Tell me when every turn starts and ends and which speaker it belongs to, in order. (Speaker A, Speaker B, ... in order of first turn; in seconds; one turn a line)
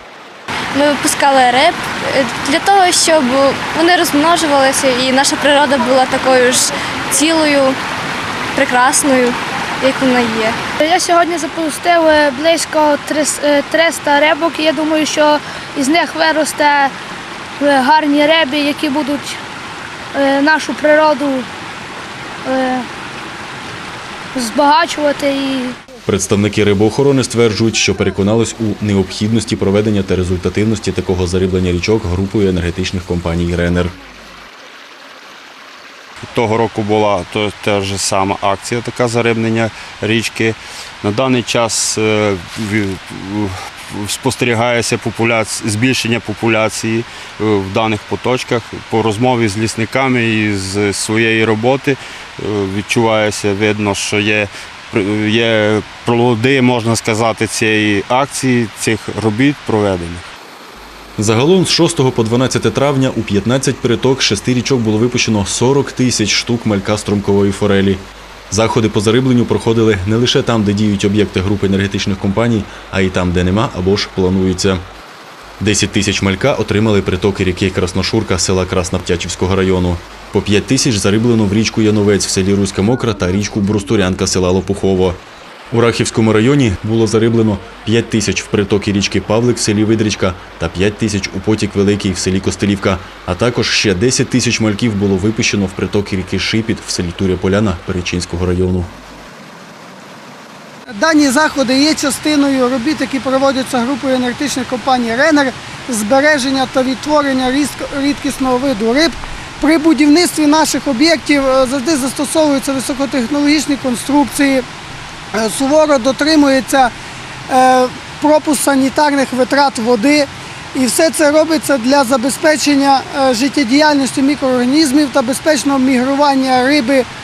Speaker A: 0.7-7.8
Speaker A: 8.5-10.6
Speaker B: 10.8-16.9
Speaker B: 17.6-19.4
Speaker B: 20.1-21.5
Speaker B: 22.4-22.9
Speaker B: 24.3-25.8
Speaker C: 26.1-33.9
Speaker D: 36.3-60.2
Speaker C: 61.2-74.8
Speaker C: 75.6-85.2
Speaker C: 85.7-98.9
Speaker E: 100.9-114.6
Speaker E: 115.3-116.9
Speaker E: 117.5-127.0